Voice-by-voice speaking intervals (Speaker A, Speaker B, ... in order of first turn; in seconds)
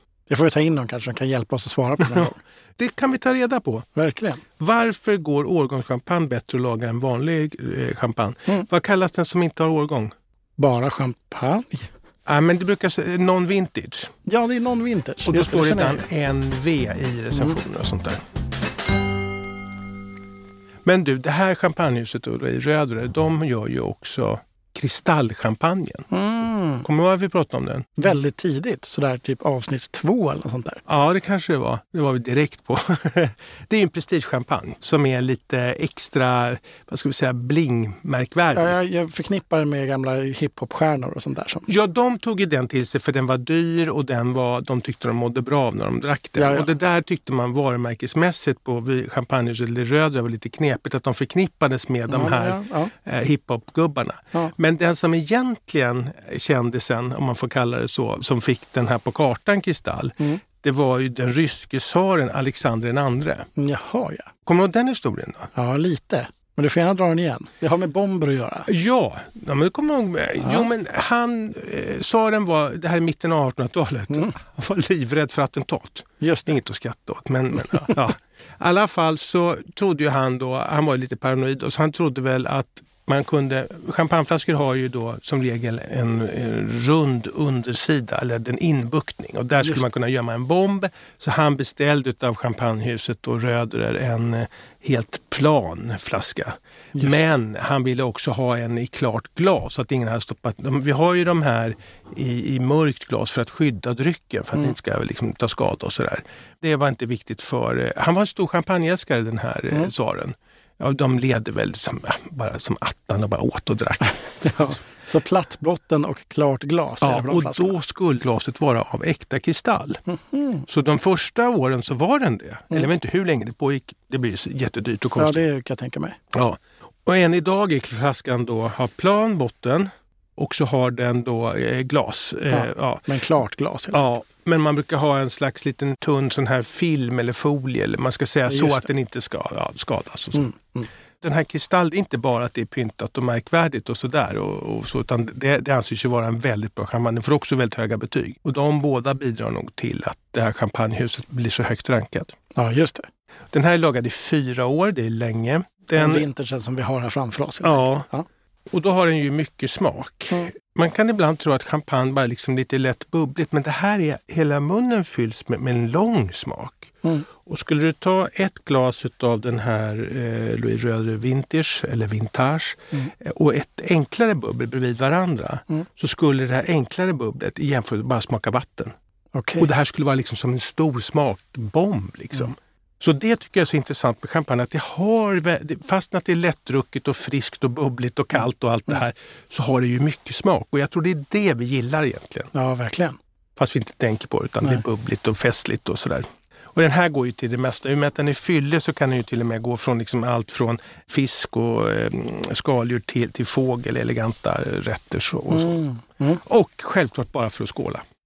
Speaker A: 0.3-2.4, 4.0-4.4, 10.6-11.9, 14.2-16.1, 17.3-17.6, 26.1-26.9, 28.0-30.8, 38.5-41.7, 46.4-46.7, 52.1-52.9, 63.6-64.3, 65.5-68.7, 70.4-70.7, 76.2-76.5, 96.9-97.3, 114.4-117.8, 120.1-120.6, 125.2-126.2, 132.5-134.0, 138.4-138.9, 140.3-140.9, 152.5-153.1, 155.9-158.2, 179.3-179.7, 192.5-193.2, 205.5-206.4
Speaker B: 2.0-3.9, 4.5-10.1, 12.2-14.1, 15.2-18.2, 20.8-26.1, 26.8-28.1, 30.9-38.8, 41.7-63.5, 64.4-65.5, 68.6-114.9, 117.0-120.0, 120.7-125.4, 126.3-133.1, 133.9-140.6, 141.2-152.4, 153.5-156.2, 157.6-158.1, 158.7-178.9, 179.6-192.5, 193.6-205.8, 206.3-208.0